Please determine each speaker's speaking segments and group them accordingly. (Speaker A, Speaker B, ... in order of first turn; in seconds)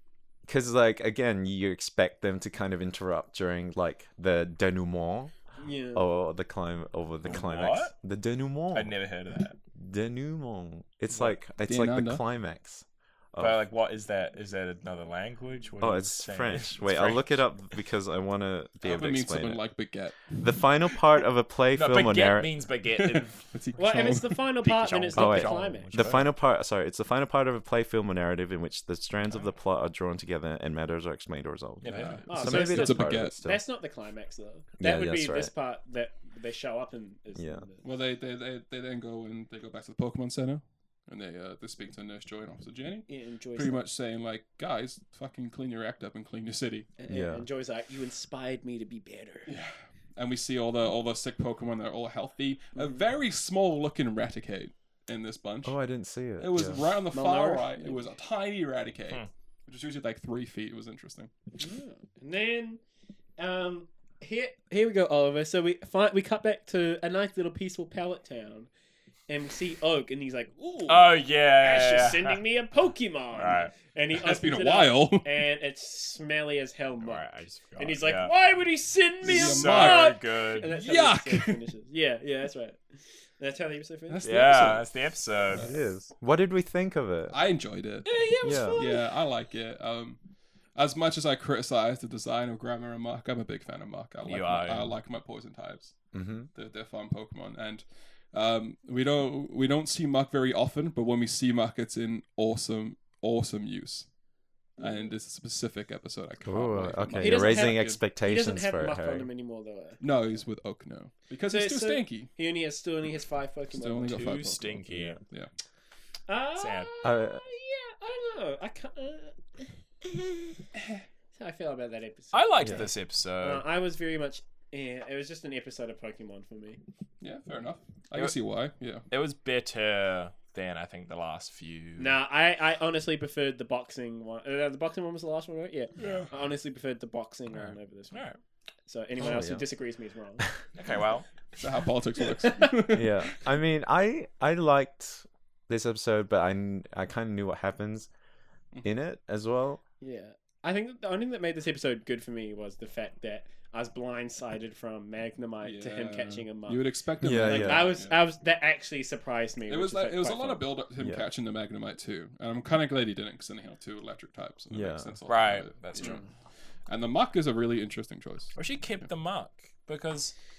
Speaker A: 0.5-5.3, 5.9-8.9, 9.8-13.6, 15.8-19.6, 20.4-22.6, 25.1-33.6, 34.8-35.5, 37.4-37.7, 47.1-47.5, 55.6-56.9, 85.5-87.4, 88.4-88.8, 96.1-96.5, 106.5-109.3, 114.9-115.2, 117.0-117.4, 122.6-122.9, 139.2-139.6, 142.9-148.1, 148.8-149.8, 157.2-157.9, 161.0-161.2, 164.7-165.2
Speaker B: 5.6-6.0, 23.8-25.9, 32.3-37.8, 43.1-43.8, 47.0-49.5, 52.8-53.0, 57.1-58.1, 61.6-62.8, 63.4-68.7, 69.3-84.3, 104.8-105.1, 107.2-110.0, 111.5-114.4, 116.3-120.6, 121.3-126.8, 132.0-138.3, 138.9-140.5, 142.4-142.9, 150.0-160.6, 166.0-166.3
Speaker C: 7.2-7.9, 8.7-9.6, 13.4-17.4, 21.7-23.5, 24.6-26.3, 31.8-32.5, 70.9-72.4, 73.3-73.7, 77.0-78.3, 79.2-80.7, 84.2-85.7, 88.0-89.1, 94.2-95.0, 114.2-115.2, 116.6-116.9, 122.3-123.6, 129.1-132.2, 136.0-136.3, 138.1-138.4, 140.8-141.3, 165.3-166.2, 168.6-170.3
Speaker D: 11.1-12.2, 18.8-20.7, 22.9-24.4, 31.8-33.4, 37.8-46.9, 49.5-55.8, 56.4-61.3, 74.1-75.3, 79.2-80.1, 80.7-81.6, 84.1-84.9, 85.5-85.8, 87.3-88.2, 88.8-90.2, 90.8-104.1, 104.8-108.0, 110.0-112.3, 113.7-115.5, 127.2-129.0, 141.6-143.2, 155.6-158.2, 159.7-166.2, 166.9-168.6